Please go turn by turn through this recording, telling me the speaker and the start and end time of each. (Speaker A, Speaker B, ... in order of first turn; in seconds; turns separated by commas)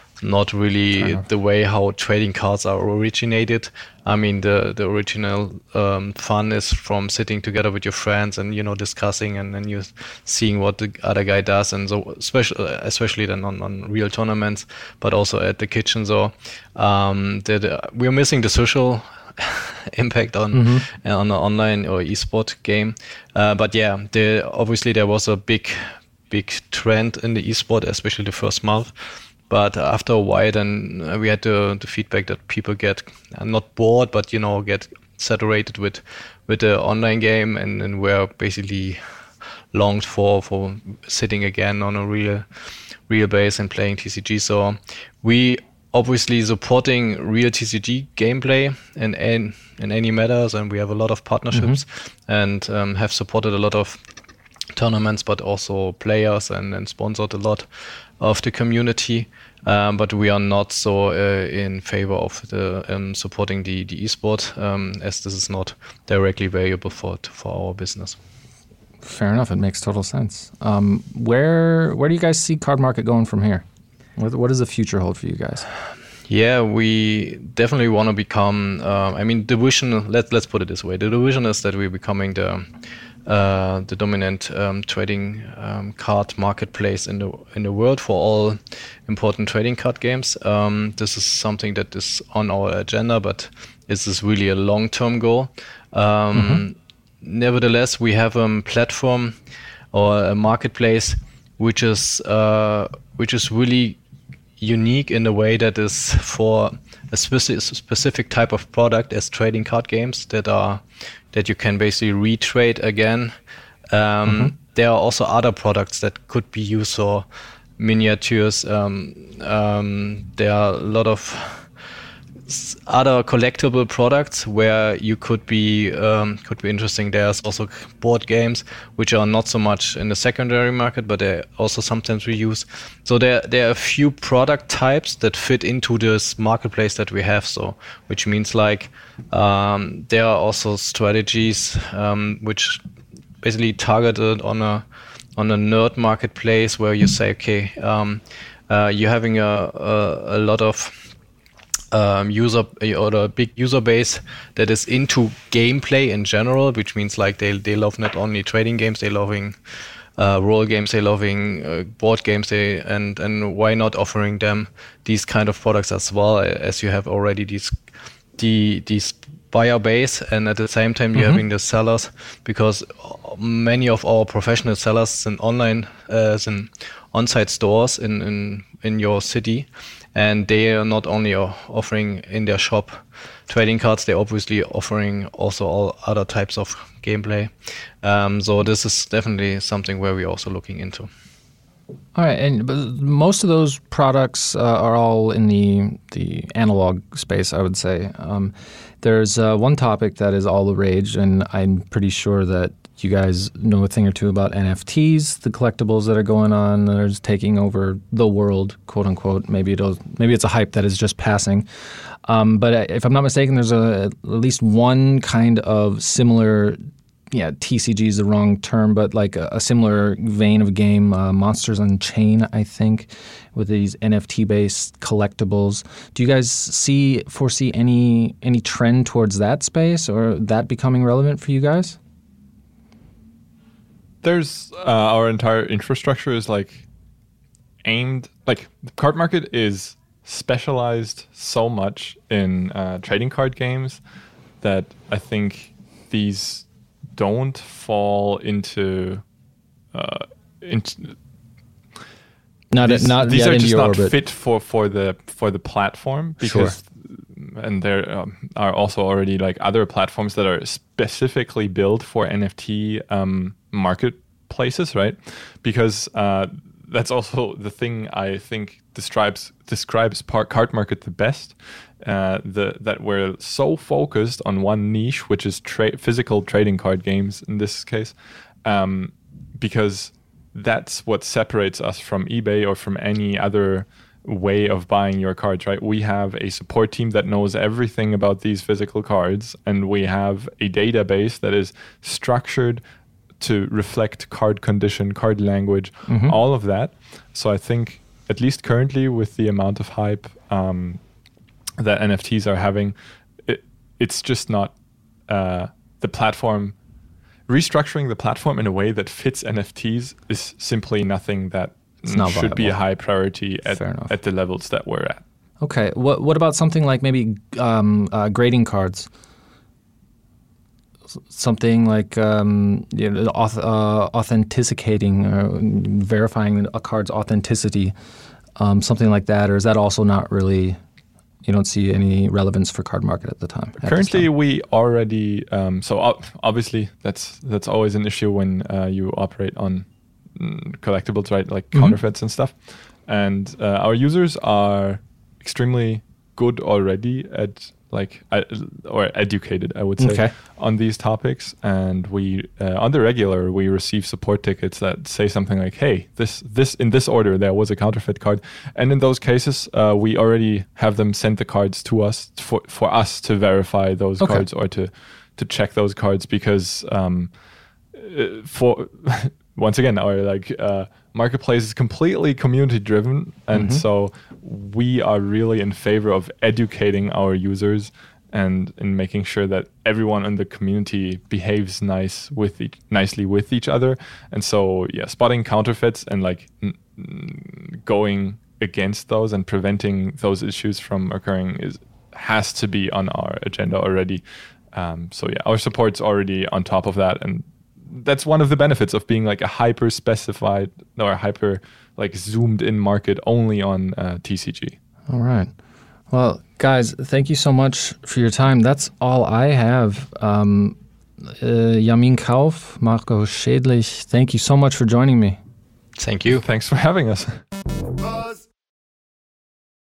Speaker A: 0.2-39.0, Speaker B: 20.5-20.8, Speaker A: 39.7-54.0, Speaker B: 51.5-51.8, Speaker A: 54.7-68.2, Speaker B: 69.0-73.6, Speaker B: 74.2-75.7, Speaker A: 76.3-82.7, Speaker A: 83.2-99.4, Speaker B: 96.3-96.6, Speaker A: 99.9-104.0, Speaker A: 104.6-113.3, Speaker A: 113.9-117.2, Speaker B: 114.2-114.5, Speaker A: 117.8-121.7, Speaker A: 122.5-142.8, Speaker A: 143.4-144.8, Speaker A: 145.4-151.1, Speaker A: 151.9-159.6, Speaker A: 160.2-167.8, Speaker A: 168.4-191.1, Speaker B: 192.1-216.8, Speaker B: 217.3-232.0, Speaker C: 234.2-236.8, Speaker C: 237.8-244.0, Speaker C: 244.6-249.2, Speaker C: 249.9-251.2, Speaker B: 252.7-254.1, Speaker C: 252.8-292.8, Speaker B: 256.4-256.8, Speaker C: 293.4-301.0, Speaker B: 296.1-296.4, Speaker C: 301.8-304.7, Speaker C: 305.3-306.8, Speaker C: 307.5-315.2, Speaker B: 312.0-312.8, Speaker B: 313.7-314.1, Speaker B: 315.6-319.1, Speaker B: 321.3-327.9, Speaker B: 328.6-330.8, Speaker B: 331.4-334.3, Speaker C: 333.8-367.3, Speaker B: 350.0-350.3, Speaker B: 364.2-364.4, Speaker C: 367.9-404.8, Speaker B: 373.5-373.8, Speaker B: 405.1-405.5, Speaker B: 406.1-415.4, Speaker A: 416.0-416.4, Speaker C: 416.3-417.4